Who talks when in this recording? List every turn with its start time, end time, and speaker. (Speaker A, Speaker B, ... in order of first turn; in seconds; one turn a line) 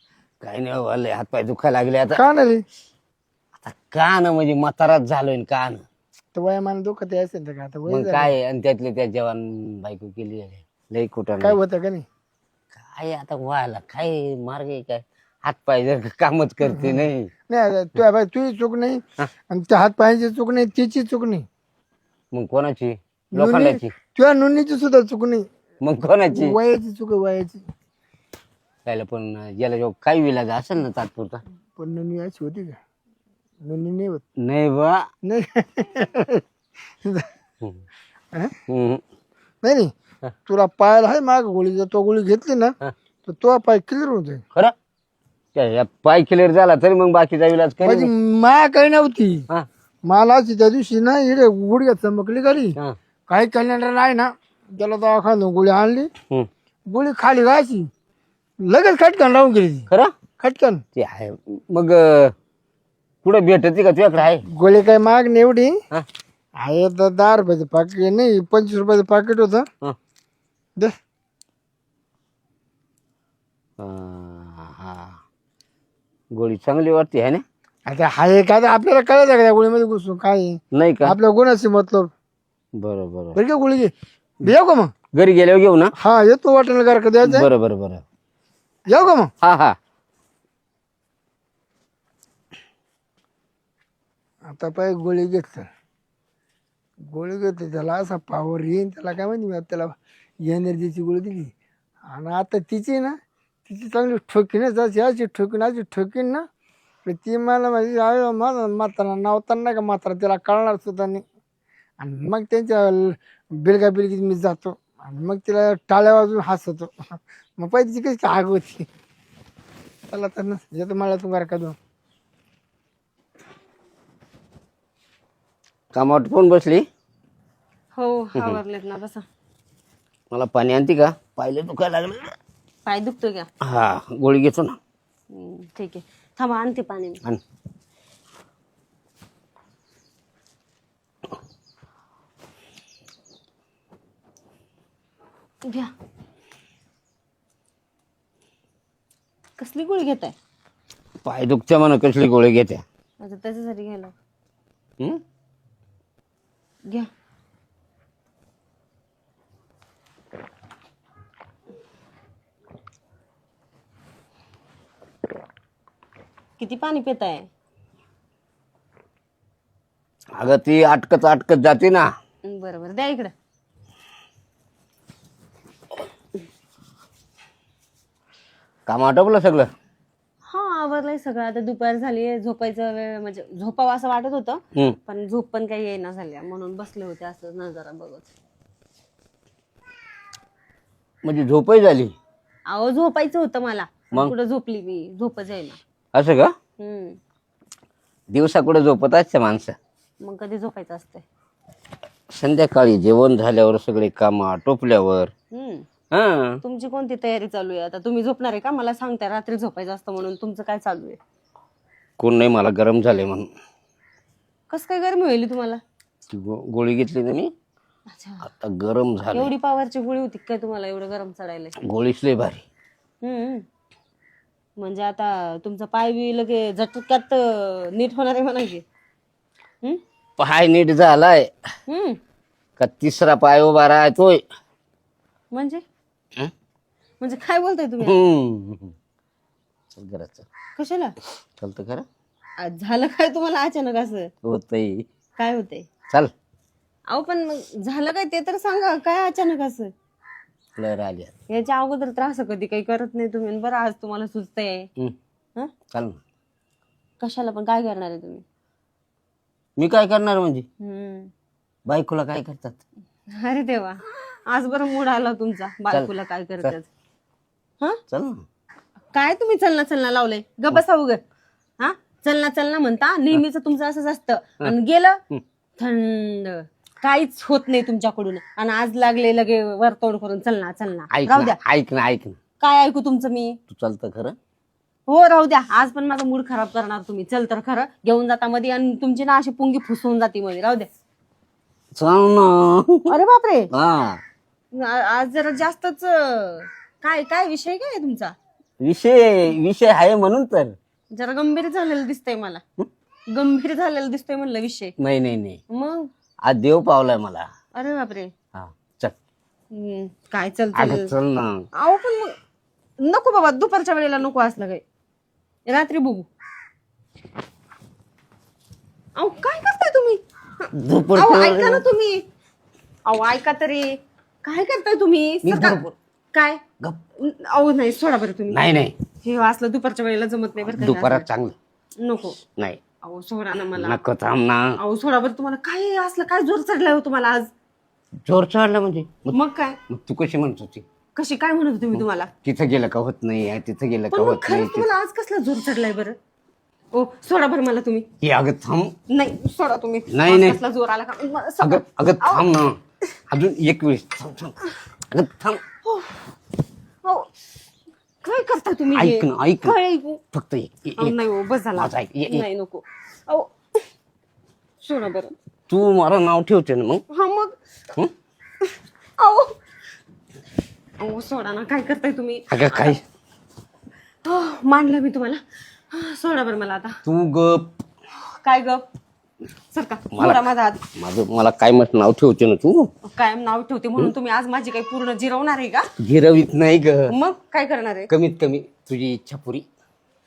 Speaker A: 0.4-2.2
Speaker B: 2.1-2.6
Speaker A: 3.5-5.8
Speaker B: 6.3-8.3
Speaker A: 7.9-11.6
Speaker B: 11.4-12.1
Speaker A: 12.7-17.3
Speaker B: 16.6-21.5
Speaker A: 22.3-23.9
Speaker B: 23.3-25.5
Speaker A: 25.8-26.6
Speaker B: 26.3-27.6
Speaker A: 28.9-31.4
Speaker B: 31.8-32.8
Speaker B: 33.6-34.2
Speaker A: 34.4-35.1
Speaker B: 35.2-36.4
Speaker A: 38.7-39.0
Speaker B: 39.6-39.9
Speaker B: 40.5-44.4
Speaker A: 45.5-48.1
Speaker B: 47.8-49.5
Speaker B: 50.0-56.1
Speaker B: 56.9-57.9
Speaker B: 58.6-60.8
Speaker A: 61.0-62.3
Speaker A: 63.2-64.4
Speaker B: 64.5-65.8
Speaker B: 66.6-69.7
Speaker A: 73.8-75.2
Speaker A: 76.3-77.4
Speaker B: 77.9-82.1
Speaker A: 80.7-81.2
Speaker A: 82.8-83.4
Speaker B: 83.4-84.9
Speaker A: 85.2-85.9
Speaker B: 86.0-87.5
Speaker A: 87.2-88.0
Speaker B: 88.9-89.3
Speaker A: 89.4-89.8
Speaker B: 94.5-95.7
Speaker B: 97.1-101.5
Speaker B: 102.1-106.5
Speaker B: 107.0-111.2
Speaker B: 112.0-118.9
Speaker B: 120.1-121.8
Speaker A: 125.9-126.8
Speaker C: 128.0-129.2
Speaker A: 130.3-132.3
Speaker C: 132.9-133.5
Speaker A: 133.6-134.8
Speaker C: 135.3-137.2
Speaker C: 149.6-150.3
Speaker A: 151.2-152.8
Speaker C: 153.2-154.1
Speaker C: 166.6-167.5
Speaker A: 170.4-172.1
Speaker C: 172.5-173.3
Speaker A: 178.9-179.7
Speaker C: 180.5-188.3
Speaker A: 191.2-192.1
Speaker C: 192.7-195.8
Speaker A: 196.1-196.5
Speaker C: 196.8-197.2
Speaker A: 198.3-199.8
Speaker C: 200.2-201.2
Speaker A: 202.3-205.3
Speaker C: 205.5-205.9
Speaker A: 206.1-206.6
Speaker C: 206.6-211.2
Speaker A: 212.2-213.5
Speaker C: 214.7-215.8
Speaker A: 216.3-217.5
Speaker C: 218.1-218.5
Speaker A: 218.4-219.5
Speaker C: 219.3-221.8
Speaker A: 221.8-222.7
Speaker C: 223.2-223.7
Speaker C: 224.8-228.8
Speaker A: 230.4-231.5
Speaker C: 231.9-232.2
Speaker A: 232.8-234.4
Speaker C: 235.5-235.8
Speaker C: 237.2-238.2
Speaker A: 238.0-238.9
Speaker A: 239.9-240.5
Speaker C: 240.8-241.1
Speaker A: 241.6-242.1
Speaker C: 242.6-244.3
Speaker A: 244.4-245.1
Speaker C: 245.4-245.9
Speaker C: 247.1-249.9
Speaker A: 250.8-251.3
Speaker C: 251.5-254.9
Speaker A: 255.9-256.2
Speaker C: 257.2-258.4
Speaker A: 259.8-260.7
Speaker C: 260.8-261.3
Speaker A: 261.9-262.8
Speaker C: 263.4-266.9
Speaker A: 268.1-268.4
Speaker C: 269.1-271.2
Speaker C: 271.8-275.2
Speaker C: 275.8-281.6
Speaker A: 281.1-282.4
Speaker C: 282.6-283.6
Speaker A: 283.7-284.4
Speaker C: 285.1-290.9
Speaker A: 292.0-293.1
Speaker C: 293.1-293.7
Speaker A: 293.7-294.2
Speaker C: 294.7-298.3
Speaker A: 298.8-300.7
Speaker C: 301.1-302.6
Speaker C: 303.3-304.9
Speaker A: 305.0-305.6
Speaker C: 305.7-306.1
Speaker A: 306.5-307.5
Speaker C: 307.8-308.3
Speaker A: 308.5-309.1
Speaker C: 309.7-311.1
Speaker A: 310.7-311.7
Speaker C: 311.8-312.4
Speaker C: 313.0-314.8
Speaker C: 315.7-316.3
Speaker C: 319.2-322.2
Speaker A: 320.7-321.9
Speaker C: 323.1-325.8
Speaker A: 325.4-325.9
Speaker C: 326.3-326.6
Speaker C: 327.2-328.6
Speaker A: 328.5-328.9
Speaker C: 329.2-331.3
Speaker A: 330.6-331.6
Speaker C: 332.0-332.4
Speaker C: 333.0-334.0
Speaker A: 333.8-334.8
Speaker C: 334.8-337.5
Speaker A: 338.3-339.4
Speaker C: 339.3-339.8
Speaker A: 339.9-340.9
Speaker C: 341.2-342.3
Speaker A: 341.9-344.9
Speaker C: 344.1-346.2
Speaker C: 346.9-348.1
Speaker A: 348.2-348.9
Speaker C: 349.1-352.5
Speaker A: 350.1-350.6
Speaker A: 351.6-352.8
Speaker A: 353.3-354.6
Speaker A: 355.1-355.6
Speaker C: 355.9-356.3
Speaker C: 358.2-360.2
Speaker A: 358.9-359.8
Speaker A: 360.3-361.2
Speaker C: 361.0-363.5
Speaker A: 361.8-362.4
Speaker C: 364.8-365.3
Speaker A: 365.7-367.0
Speaker C: 367.1-367.5
Speaker C: 368.7-369.6
Speaker C: 371.0-373.0
Speaker A: 372.5-373.0
Speaker C: 374.2-377.0
Speaker A: 377.1-377.7
Speaker C: 378.4-378.8
Speaker C: 379.7-380.8
Speaker A: 380.1-380.4
Speaker A: 380.9-382.9
Speaker C: 383.0-385.9
Speaker A: 386.0-387.1
Speaker C: 387.1-388.1
Speaker A: 388.1-389.7